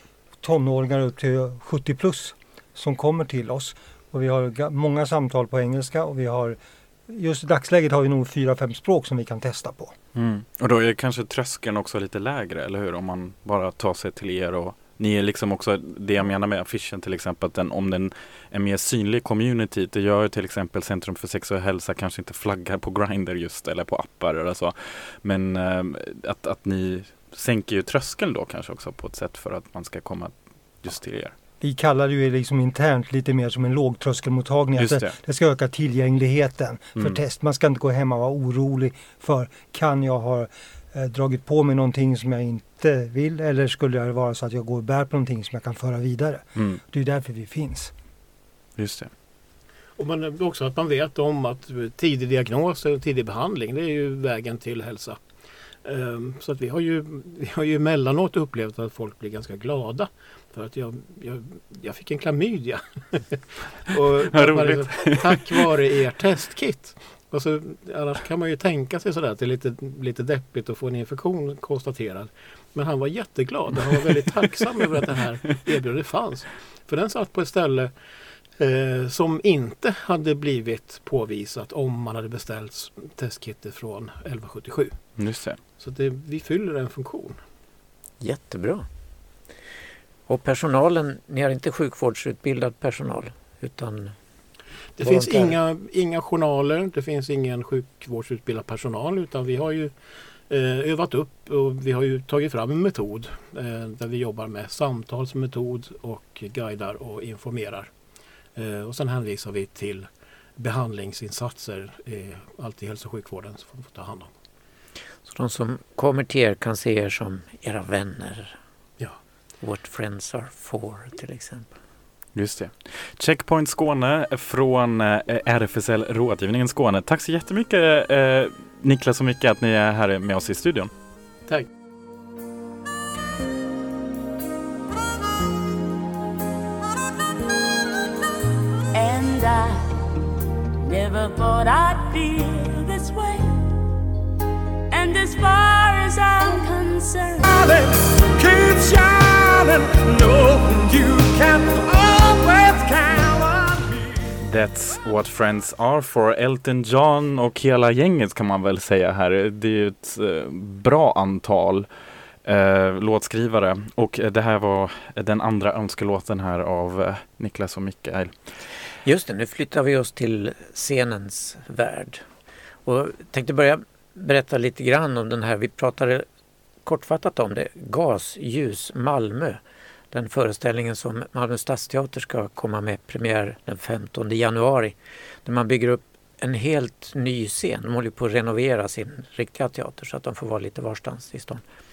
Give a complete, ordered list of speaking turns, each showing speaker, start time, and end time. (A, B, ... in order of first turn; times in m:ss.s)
0:00.4-0:09.9 A
0:10.1-0:31.3 B
0:31.6-0:47.9 A
0:34.8-0:35.1 B
0:48.8-0:49.1 B
0:50.0-0:55.2 C
0:55.8-1:17.9 C
1:04.3-1:05.7 B
1:18.6-1:25.0 C
1:25.2-1:25.6 B
1:25.8-1:27.4 C
1:28.2-1:28.8 D
1:30.3-1:34.1 D
1:35.0-1:39.9 C
1:35.0-1:35.6 D
1:40.5-1:47.9 C
1:48.6-1:54.3 C
1:55.2-1:58.6 D
1:59.6-2:01.7 D
2:02.3-2:10.9 B
2:18.9-2:19.9 E
2:20.8-2:23.7 E
2:24.9-2:27.4 E
2:27.4-2:34.1 F
2:34.4-2:41.9 B
2:42.4-2:48.3 B
2:49.0-2:52.2 D
2:52.8-2:56.2 D
2:56.8-2:59.6 D
3:00.1-3:11.6 D